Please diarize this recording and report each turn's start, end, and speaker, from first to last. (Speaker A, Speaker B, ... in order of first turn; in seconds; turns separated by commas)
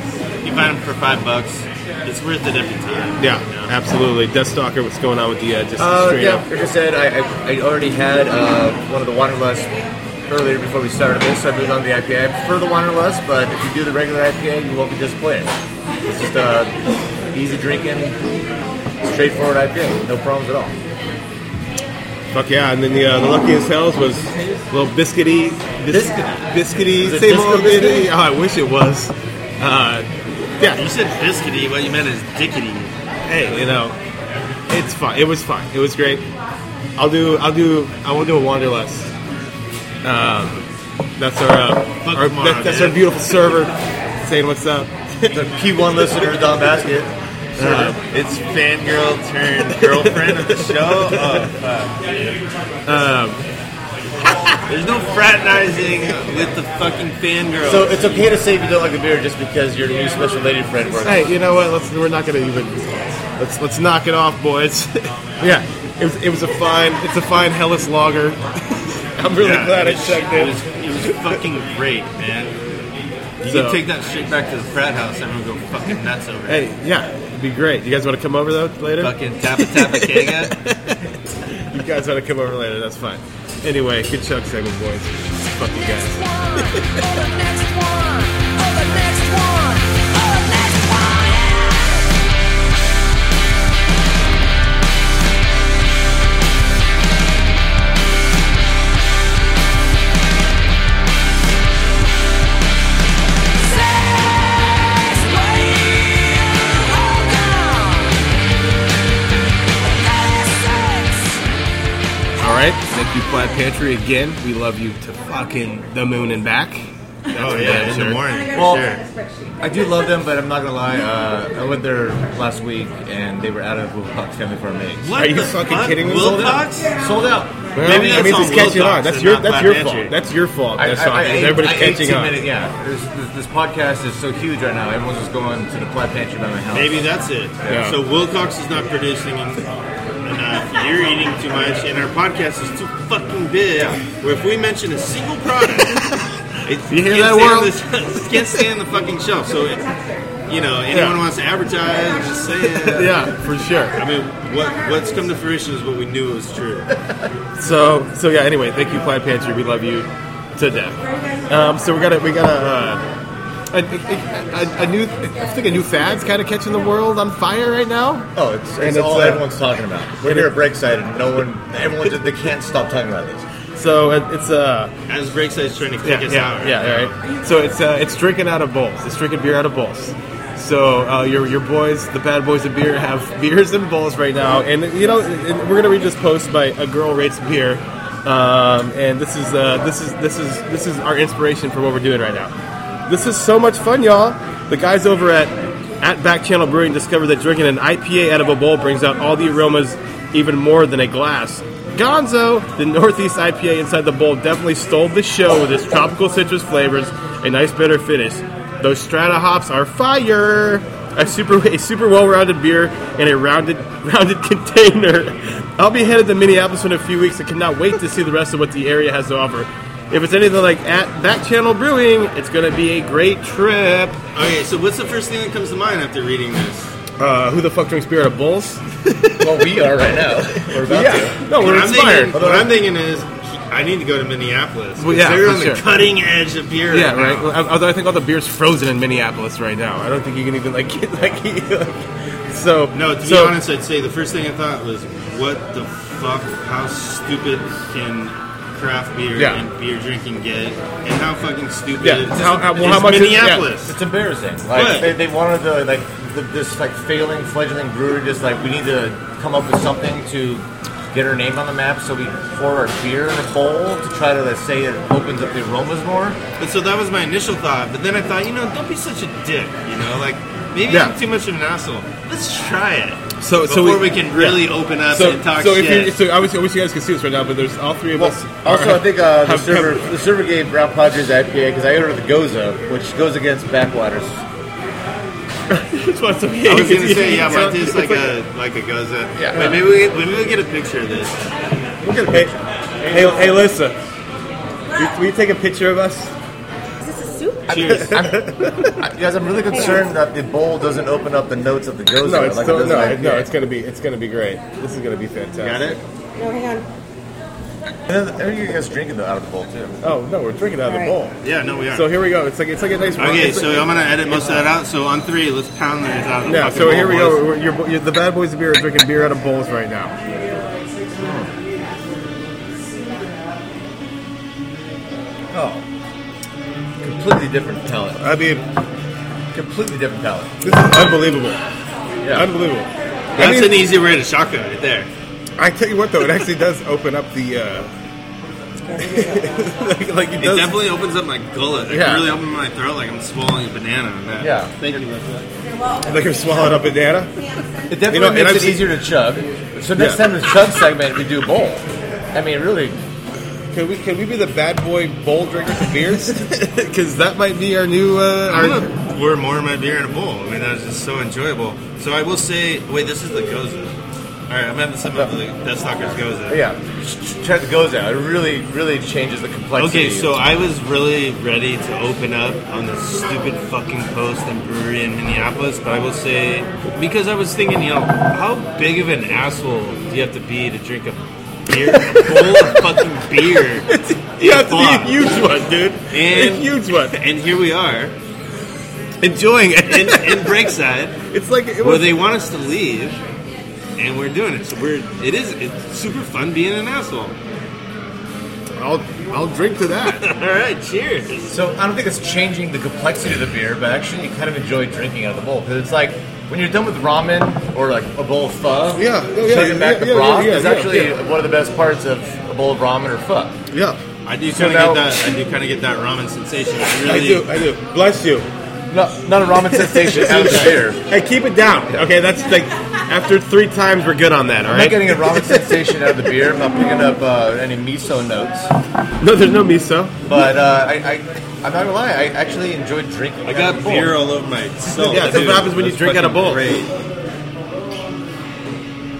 Speaker A: 0.4-3.7, Speaker B: 3.2-6.5, Speaker C: 5.8-9.7, Speaker C: 10.3-16.7, Speaker C: 17.3-18.2, Speaker C: 19.0-20.8, Speaker B: 22.3-30.1, Speaker C: 25.9-28.1, Speaker A: 30.7-32.9, Speaker B: 33.3-34.0, Speaker B: 34.7-36.2, Speaker B: 37.0-39.1, Speaker B: 40.0-40.6, Speaker B: 41.2-45.4, Speaker A: 42.0-43.3, Speaker C: 45.3-47.8, Speaker B: 47.6-48.0, Speaker A: 47.6-52.1, Speaker B: 49.8-51.4, Speaker B: 52.9-53.4, Speaker B: 54.2-54.6, Speaker A: 54.7-58.3, Speaker C: 57.6-61.3, Speaker B: 61.0-71.3, Speaker A: 69.4-72.5, Speaker B: 73.4-73.8, Speaker A: 73.4-76.7, Speaker B: 76.5-86.9, Speaker A: 79.0-80.6, Speaker D: 86.2-92.1, Speaker D: 103.6-108.2, Speaker D: 109.9-111.4, Speaker B: 112.4-118.2, Speaker A: 117.3-119.0, Speaker C: 118.5-118.8, Speaker D: 118.5-119.5, Speaker C: 119.6-125.1, Speaker A: 125.0-127.0, Speaker B: 125.1-126.7, Speaker C: 127.0-128.0, Speaker B: 127.7-132.4, Speaker A: 127.8-130.1, Speaker C: 130.7-137.1, Speaker A: 136.7-139.6, Speaker B: 137.7-138.0, Speaker A: 140.2-146.1, Speaker A: 146.6-153.3, Speaker B: 146.8-147.7, Speaker B: 148.3-148.6, Speaker B: 150.9-151.2, Speaker B: 152.8-154.0, Speaker A: 153.9-157.0, Speaker B: 157.6-163.0, Speaker B: 163.7-169.4, Speaker C: 168.3-173.4, Speaker B: 170.2-170.5, Speaker B: 173.8-174.9, Speaker A: 175.1-177.1, Speaker B: 176.0-192.5, Speaker B: 193.1-224.2, Speaker A: 224.3-226.9, Speaker B: 227.2-229.8, Speaker C: 229.4-231.4, Speaker B: 230.5-232.4, Speaker A: 231.5-237.5, Speaker C: 232.3-232.8, Speaker B: 235.0-235.8, Speaker B: 236.9-243.5, Speaker A: 242.9-253.9, Speaker B: 249.3-249.6, Speaker B: 252.0-253.7, Speaker C: 253.8-266.4, Speaker A: 254.7-255.1, Speaker A: 266.6-276.1, Speaker B: 270.9-271.1, Speaker B: 273.4-280.1, Speaker C: 278.1-284.4, Speaker B: 285.7-288.3, Speaker A: 286.7-291.4, Speaker C: 289.4-289.9, Speaker B: 292.0-292.5, Speaker C: 292.3-293.3, Speaker B: 293.1-293.9, Speaker B: 294.9-296.3, Speaker D: 297.0-298.0, Speaker A: 297.7-298.2, Speaker B: 297.9-299.0, Speaker C: 297.9-303.5, Speaker D: 299.7-300.0, Speaker B: 302.2-306.0, Speaker A: 305.6-306.0, Speaker D: 306.4-306.9, Speaker C: 308.1-310.0, Speaker B: 310.0-311.4, Speaker D: 310.9-311.1, Speaker A: 311.4-312.1, Speaker B: 311.9-314.0, Speaker A: 313.2-317.4, Speaker B: 316.4-320.1, Speaker C: 321.2-321.5, Speaker C: 325.5-325.8, Speaker C: 327.0-328.2, Speaker B: 328.2-328.6, Speaker C: 329.5-331.2, Speaker B: 330.6-331.6, Speaker C: 332.2-332.5, Speaker B: 332.3-333.8, Speaker A: 333.4-335.1, Speaker B: 335.6-337.9, Speaker D: 338.9-339.4, Speaker B: 339.0-340.8, Speaker A: 340.4-345.5, Speaker B: 341.9-342.3, Speaker C: 344.4-344.7, Speaker B: 346.0-347.3, Speaker C: 347.9-353.0, Speaker B: 348.1-348.9, Speaker B: 350.0-350.2, Speaker B: 353.7-358.9, Speaker A: 358.5-363.9, Speaker A: 364.5-366.6, Speaker C: 366.4-370.4, Speaker A: 369.8-385.4, Speaker B: 381.9-382.8, Speaker B: 383.9-387.1, Speaker A: 386.1-388.2, Speaker B: 389.2-390.6, Speaker A: 389.8-391.2, Speaker B: 391.3-392.2, Speaker A: 391.8-393.2, Speaker A: 394.0-397.4, Speaker B: 398.8-400.2, Speaker A: 400.1-401.5, Speaker C: 401.5-413.6, Speaker B: 408.9-411.1, Speaker B: 413.7-414.0, Speaker A: 414.2-417.5, Speaker C: 414.5-415.1, Speaker B: 417.0-418.5, Speaker C: 418.9-421.0, Speaker B: 419.7-425.6, Speaker C: 424.7-428.7, Speaker B: 429.2-430.1, Speaker C: 430.2-434.2, Speaker A: 433.4-436.9, Speaker C: 434.9-436.8, Speaker B: 435.1-436.7